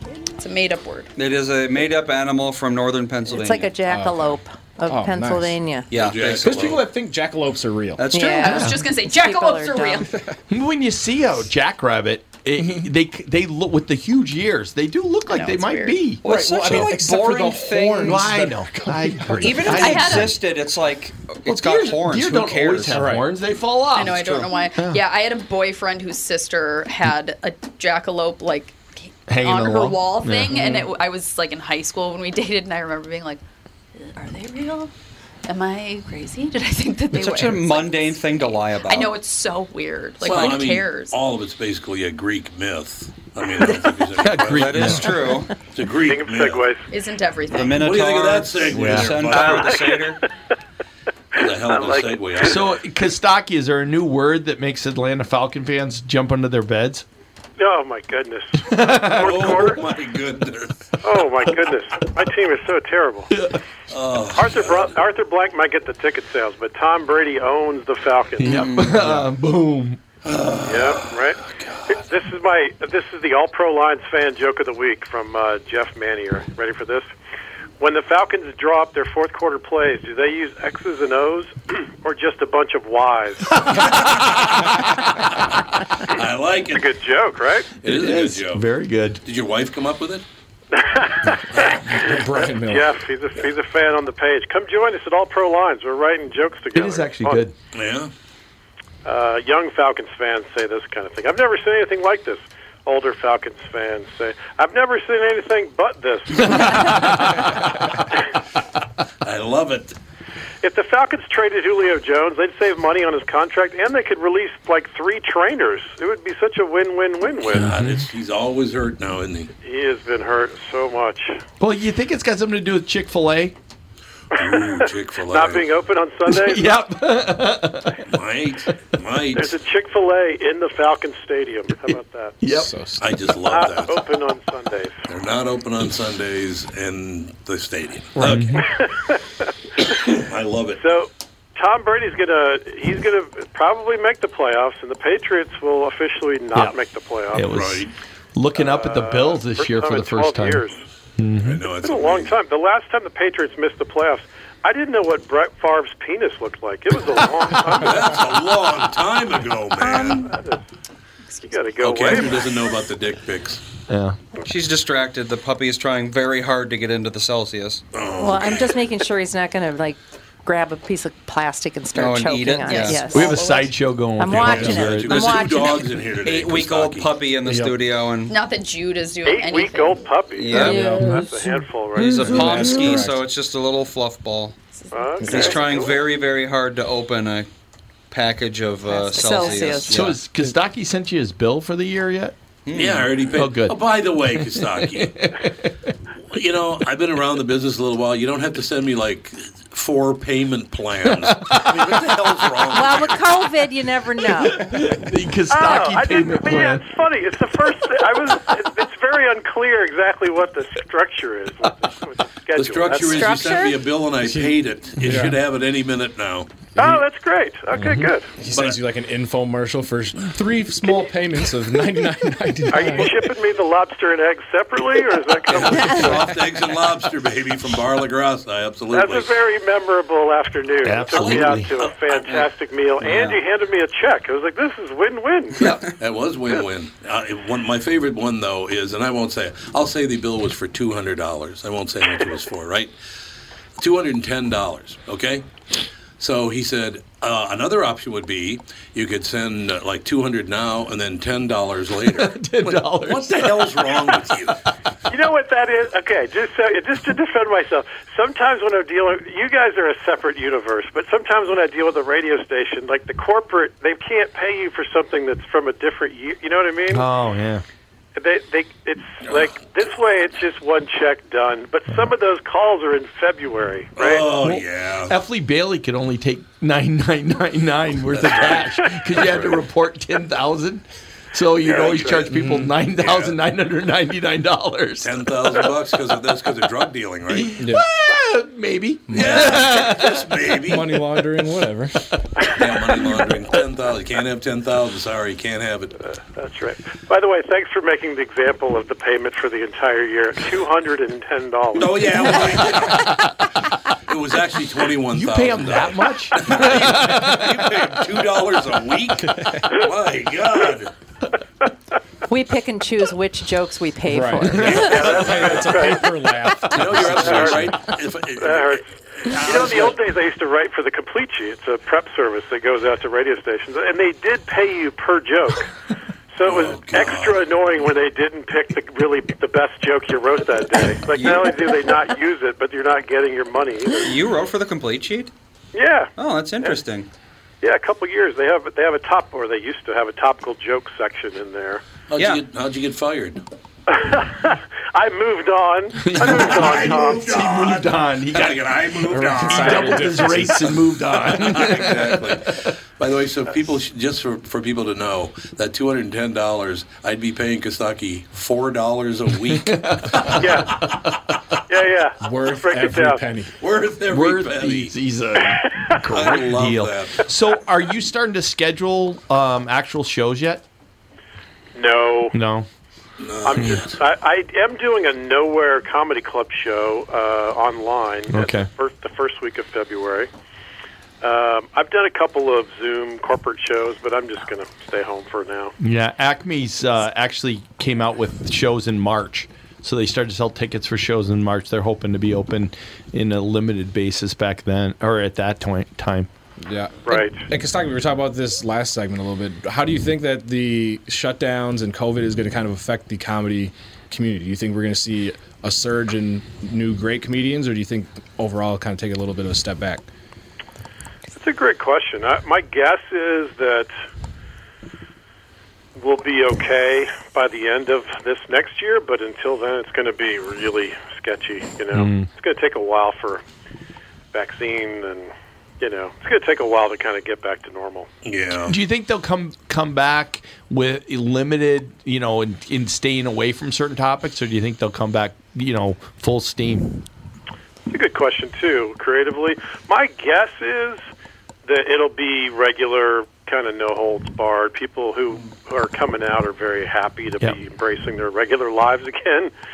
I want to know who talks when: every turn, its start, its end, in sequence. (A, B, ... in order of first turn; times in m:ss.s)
0:00.4-0:01.1 A
0:01.2-0:03.7 B
0:03.2-0:05.9 C
0:03.9-0:05.6 D
0:05.9-0:06.8 B
0:05.9-0:06.8 E
0:06.4-0:08.1 D
0:08.0-0:08.7 B
0:08.1-0:10.1 C
0:08.2-0:10.1 A
0:08.5-0:08.8 F
0:10.1-0:10.3 D
0:10.5-0:20.4 F
0:12.6-0:12.9 D
0:15.3-0:16.1 A
0:16.2-0:18.3 B
0:16.2-0:19.8 D
0:19.3-0:23.2 B
0:19.7-0:20.4 A
0:21.4-0:25.0 F
0:22.9-0:23.3 D
0:23.9-0:33.4 A
0:24.0-0:24.6 B
0:29.3-0:30.7 F
0:30.5-0:30.9 B
0:34.0-0:34.9 A
0:35.4-0:38.2 A
0:37.1-0:39.2 B
0:38.8-0:41.2 A
0:40.2-0:45.1 E
0:44.2-0:45.4 F
0:44.4-0:45.5 B
0:45.7-0:46.7 E
0:45.9-0:46.9 G
0:46.9-0:47.9 A
0:47.5-0:50.2 B
0:47.5-0:49.9 E
0:48.7-0:49.2 F
0:49.6-0:50.3 G
0:51.4-0:52.8 E
0:51.4-0:52.5 G
0:52.4-0:57.0 F
0:57.6-0:59.8 G
0:58.7-0:59.6 F
0:59.1-1:00.9 E
1:01.0-1:03.3 G
1:03.3-1:03.6 F
1:03.9-1:05.0 E
1:04.3-1:08.6 G
1:08.4-1:10.0 F
1:08.4-1:09.2 B
1:10.2-1:12.0 E
1:10.6-1:17.1 G
1:17.8-1:23.6 G
1:23.6-1:24.4 F
1:23.9-1:24.5 E
1:26.1-1:26.9 E
1:26.7-1:27.7 G
1:27.8-1:28.7 E
1:27.8-1:29.2 F
1:29.2-1:30.2 E
1:30.7-1:37.4 G
1:31.5-1:31.8 E
1:31.8-1:32.9 D
1:36.7-1:37.5 F
1:37.7-1:38.1 E
1:39.0-1:47.1 G
1:46.4-1:47.9 F
1:49.2-1:50.0 E
1:50.6-1:57.7 G
1:57.5-1:59.5 E
1:57.5-1:58.1 F
1:59.6-2:01.4 G
2:01.6-2:03.6 F
2:04.3-2:05.7 E
2:04.3-2:06.8 G
2:06.2-2:08.0 F
2:08.1-2:09.6 E
2:09.4-2:12.4 G
2:12.4-2:12.7 F
2:12.5-2:13.1 D
2:13.0-2:14.0 E
2:13.5-2:15.0 G
2:15.1-2:18.7 E
2:18.2-2:18.7 F
2:18.6-2:19.5 G
2:20.0-2:20.8 E
2:20.8-2:27.6 G
2:26.5-2:26.8 F
2:27.3-2:30.6 F
2:27.4-2:27.9 E
2:28.6-2:30.8 G
2:31.2-2:31.6 F
2:31.4-2:32.3 E
2:31.8-2:38.2 G
2:37.8-2:40.3 E
2:39.8-2:40.2 C
2:40.1-2:40.6 G
2:41.3-2:42.7 G
2:41.8-2:43.6 E
2:43.9-2:44.2 F
2:44.4-2:47.8 B
2:47.9-2:48.8 E
2:48.2-2:56.0 C
2:51.9-2:53.2 B
2:52.6-2:53.7 A
2:53.1-2:55.4 F
2:54.3-2:57.1 E
2:56.2-2:58.4 B
2:57.4-2:57.8 D
2:58.3-3:00.0 A
2:59.2-3:02.2 G
3:00.3-3:01.1 B
3:00.5-3:01.3 C
3:00.5-3:01.3 D
3:01.9-3:04.6 B
3:02.0-3:03.1 F
3:02.0-3:03.2 D
3:04.8-3:05.9 A
3:04.9-3:05.9 G
3:05.2-3:05.5 D
3:05.2-3:07.5 B
3:08.1-3:10.2 B
3:08.8-3:10.1 C
3:09.9-3:12.4 F
3:12.6-3:13.2 B
3:12.7-3:15.2 E
3:13.3-3:13.8 F
3:14.3-3:15.7 F
3:16.3-3:23.4 E
3:21.2-3:21.9 F
3:22.7-3:24.8 C
3:24.4-3:26.9 F
3:25.5-3:33.3 G
3:32.5-3:36.5 E
3:33.0-3:33.8 C
3:34.2-3:35.4 D
3:35.0-3:35.3 F
3:36.8-3:37.0 D
3:36.8-3:38.3 G
3:37.7-3:43.2 D
3:38.5-3:38.8 E
3:42.7-3:46.0 G
3:45.5-3:49.4 E
3:45.7-3:46.2 C
3:48.9-3:55.7 G
3:50.8-3:51.7 F
3:51.1-3:52.4 E
3:53.0-3:53.4 B
3:55.6-3:55.8 F
3:56.0-4:02.9 E
4:03.8-4:05.4 E
4:06.2-4:14.6 E
4:12.1-4:14.1 F
4:15.1-4:27.0 G
4:26.9-4:27.6 F
4:28.2-4:34.2 G
4:29.2-4:29.5 E
4:34.0-4:35.1 E
4:34.4-4:45.3 F
4:38.1-4:39.6 E
4:41.6-4:42.3 G
4:41.7-4:42.2 E
4:42.3-4:42.7 D
4:43.0-4:43.4 E
4:45.0-4:47.6 E
4:47.3-4:50.3 F
4:47.6-4:47.8 D
4:49.1-4:49.5 D
4:49.1-4:51.0 E
4:50.7-4:52.0 D
4:52.4-4:53.0 G
4:52.5-4:55.9 E
4:56.0-5:02.6 G
5:01.8-5:03.2 E
5:02.8-5:03.1 F
5:04.1-5:10.9 E
5:05.1-5:07.7 F
5:09.3-5:09.7 D
5:12.3-5:15.1 C
5:14.1-5:17.7 D
5:14.6-5:16.0 E
5:14.9-5:16.0 G
5:16.7-5:20.0 E
5:17.2-5:17.6 G
5:18.4-5:18.8 G
5:19.4-5:25.7 G
5:26.3-5:34.1 G
5:26.4-5:27.4 E
5:31.1-5:31.8 B
5:34.0-5:35.3 B
5:35.7-5:36.8 G
5:36.2-5:37.1 B
5:37.6-5:41.8 G
5:42.1-5:43.4 E
5:42.2-5:42.4 B
5:43.9-5:47.3 G
5:46.0-5:48.8 F
5:46.2-6:00.9 E
5:49.1-5:50.7 D
5:49.4-5:52.4 F
5:59.5-6:01.2 F
6:00.4-6:00.8 G
6:01.7-6:03.2 G
6:02.2-6:03.5 D
6:03.6-6:05.0 E
6:04.1-6:10.6 F
6:05.7-6:06.0 G
6:06.1-6:07.3 E
6:11.7-6:12.4 G
6:12.3-6:12.7 F
6:13.2-6:14.0 E
6:13.4-6:20.3 G
6:13.6-6:13.8 F
6:18.3-6:18.7 F
6:21.2-6:25.7 G
6:25.8-6:36.3 F
6:36.6-6:50.0 D
6:37.0-6:37.4 G
6:51.3-6:53.9 G
6:56.0-7:03.4 G
7:01.9-7:02.3 F
7:04.3-7:05.3 G
7:05.8-7:08.1 G
7:08.2-7:08.8 E
7:08.6-7:16.9 F
7:17.9-7:21.0 G
7:21.6-7:29.5 G